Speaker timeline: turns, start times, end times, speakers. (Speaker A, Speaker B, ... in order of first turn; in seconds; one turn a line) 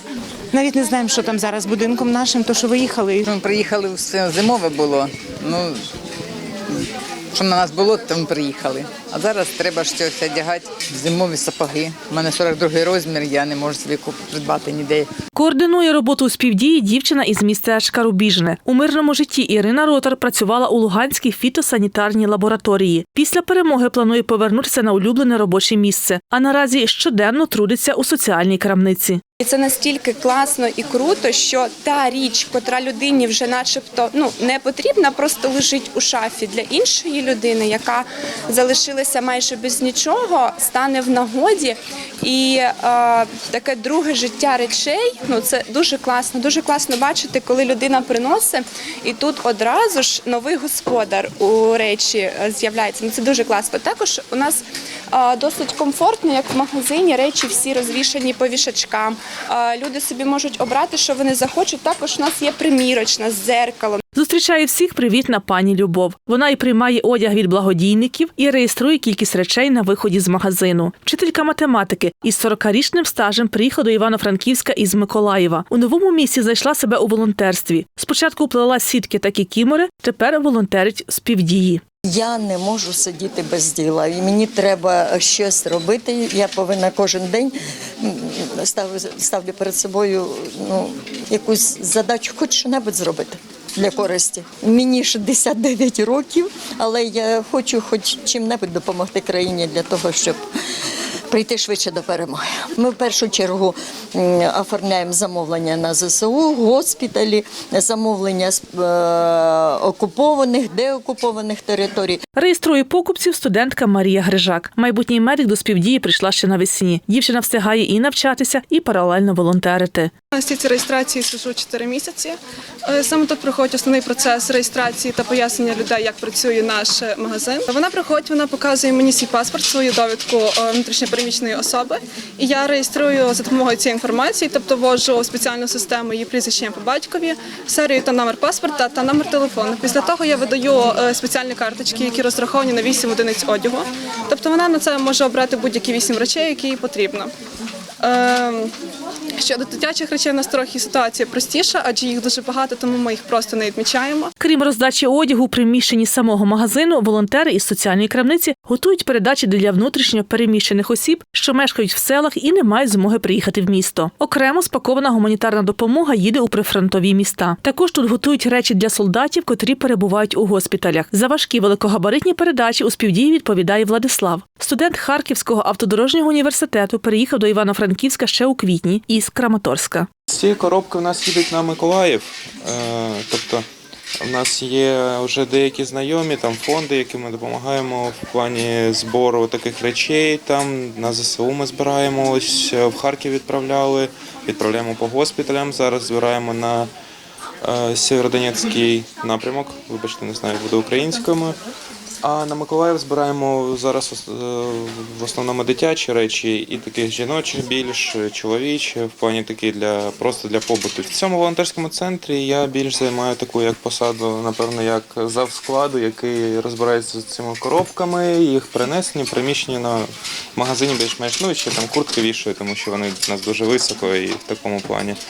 Speaker A: 0.5-3.2
Speaker B: 3.2-5.8
Speaker B: 6.7-15.1
Speaker C: 15.3-29.2
Speaker D: 29.4-64.0
Speaker C: 64.1-81.8
Speaker E: 82.1-100.4
Speaker E: 101.3-112.2
Speaker C: 112.3-120.1
Speaker F: 120.3-122.3
Speaker F: 122.9-147.3
Speaker F: 148.0-148.7
Speaker F: 149.4-154.3
Speaker C: 154.4-180.1
Speaker G: 180.3-183.6
Speaker G: 184.2-196.9
Speaker G: 197.6-201.6
Speaker G: 202.2-220.0
Speaker G: 220.6-225.2